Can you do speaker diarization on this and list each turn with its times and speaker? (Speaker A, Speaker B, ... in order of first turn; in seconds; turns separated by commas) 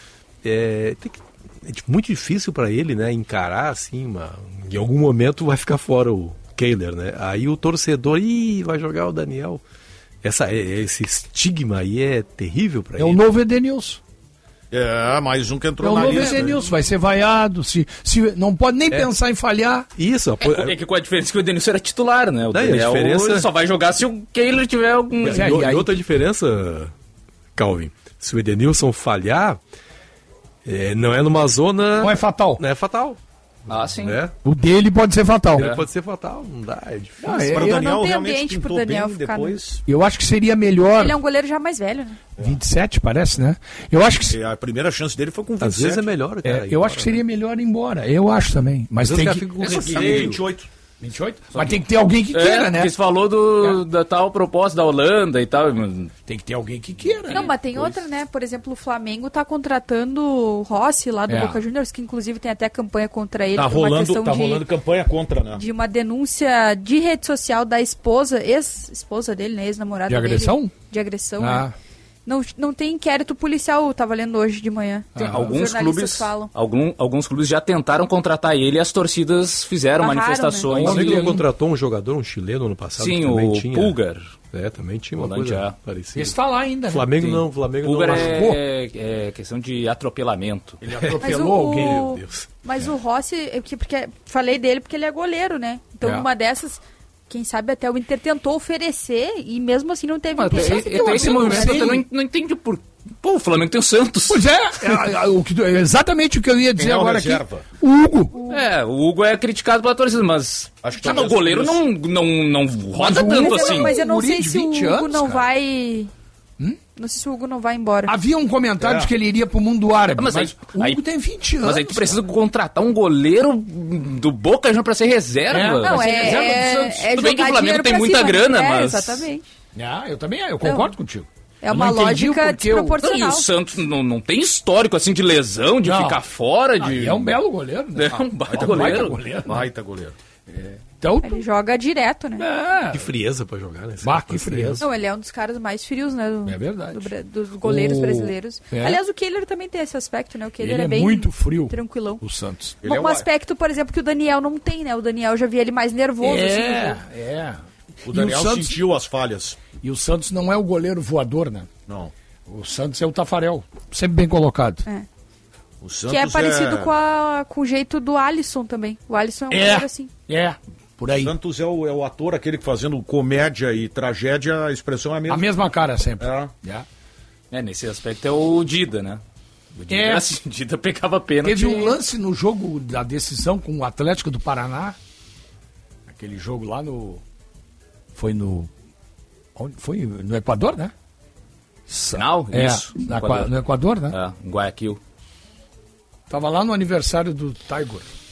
Speaker A: 0.4-9.6, Speaker A: 10.2-13.2, Speaker B: 13.0-14.0, Speaker C: 14.7-16.6, Speaker B: 15.8-19.9, Speaker A: 16.0-16.6, Speaker A: 20.0-20.8, Speaker D: 20.4-25.6, Speaker A: 22.5-23.5, Speaker A: 25.2-26.9, Speaker B: 25.2-25.9, Speaker A: 27.5-29.6, Speaker A: 30.6-33.2, Speaker B: 32.0-32.6, Speaker D: 33.7-34.1, Speaker A: 33.7-34.3, Speaker B: 34.4-35.7, Speaker A: 35.5-37.5, Speaker D: 35.6-35.9, Speaker B: 37.2-37.9, Speaker C: 37.5-39.8, Speaker E: 37.5-39.6, Speaker B: 39.9-41.2, Speaker E: 41.0-42.2, Speaker B: 42.4-44.4, Speaker C: 44.3-46.1, Speaker A: 45.6-47.2, Speaker B: 46.4-50.4, Speaker A: 49.0-50.4, Speaker C: 49.6-50.7, Speaker B: 51.0-52.9, Speaker D: 51.5-51.8, Speaker D: 52.3-56.1, Speaker B: 56.3-57.5, Speaker E: 57.3-64.6, Speaker B: 61.3-61.6, Speaker C: 63.5-65.6, Speaker E: 65.5-71.7, Speaker B: 70.1-70.7, Speaker B: 71.4-71.7, Speaker E: 72.2-76.5, Speaker B: 75.1-75.5, Speaker D: 75.2-81.3, Speaker E: 80.0-80.7, Speaker B: 80.7-81.4, Speaker A: 80.8-84.0, Speaker D: 83.0-84.3, Speaker A: 84.5-86.3, Speaker D: 85.2-85.7, Speaker B: 86.1-87.1, Speaker A: 86.9-88.5, Speaker D: 87.2-90.8, Speaker B: 88.0-88.6, Speaker B: 90.9-92.0, Speaker E: 91.2-101.8, Speaker A: 91.7-92.5, Speaker D: 100.3-104.4, Speaker B: 100.5-102.0, Speaker B: 104.3-108.4, Speaker C: 106.8-107.6, Speaker E: 108.3-108.6, Speaker D: 108.5-113.9, Speaker C: 110.8-111.8, Speaker B: 112.9-115.4, Speaker E: 113.1-116.1, Speaker E: 117.0-118.1, Speaker B: 118.0-122.2, Speaker C: 118.8-119.1, Speaker D: 120.2-121.0, Speaker D: 121.6-129.3, Speaker B: 125.5-127.1, Speaker E: 125.8-129.4, Speaker B: 129.7-133.0, Speaker E: 130.6-130.9, Speaker E: 131.6-133.5, Speaker D: 133.0-137.3, Speaker B: 135.8-136.2, Speaker B: 136.8-139.7, Speaker D: 137.9-139.2, Speaker C: 138.5-140.1, Speaker B: 140.5-141.4, Speaker E: 141.2-142.4, Speaker B: 142.4-143.1, Speaker A: 142.9-144.8, Speaker B: 144.0-144.8, Speaker E: 144.8-152.2, Speaker B: 146.4-147.1, Speaker B: 147.6-149.0, Speaker B: 150.6-152.8, Speaker C: 152.8-153.3, Speaker E: 152.8-157.0, Speaker B: 156.2-158.8, Speaker C: 158.0-159.6, Speaker B: 159.8-161.7, Speaker C: 161.9-162.1, Speaker B: 162.5-164.8, Speaker C: 165.8-166.9, Speaker E: 166.1-170.1, Speaker B: 169.5-171.3, Speaker C: 171.2-175.5, Speaker B: 175.3-176.8, Speaker C: 176.2-176.5, Speaker D: 177.5-179.2, Speaker D: 179.8-181.9, Speaker B: 179.9-180.3, Speaker B: 181.4-185.0, Speaker B: 186.1-187.2, Speaker B: 188.1-188.7, Speaker B: 189.6-190.9, Speaker B: 191.9-194.2, Speaker D: 192.1-193.5, Speaker D: 194.1-195.0, Speaker B: 196.3-198.1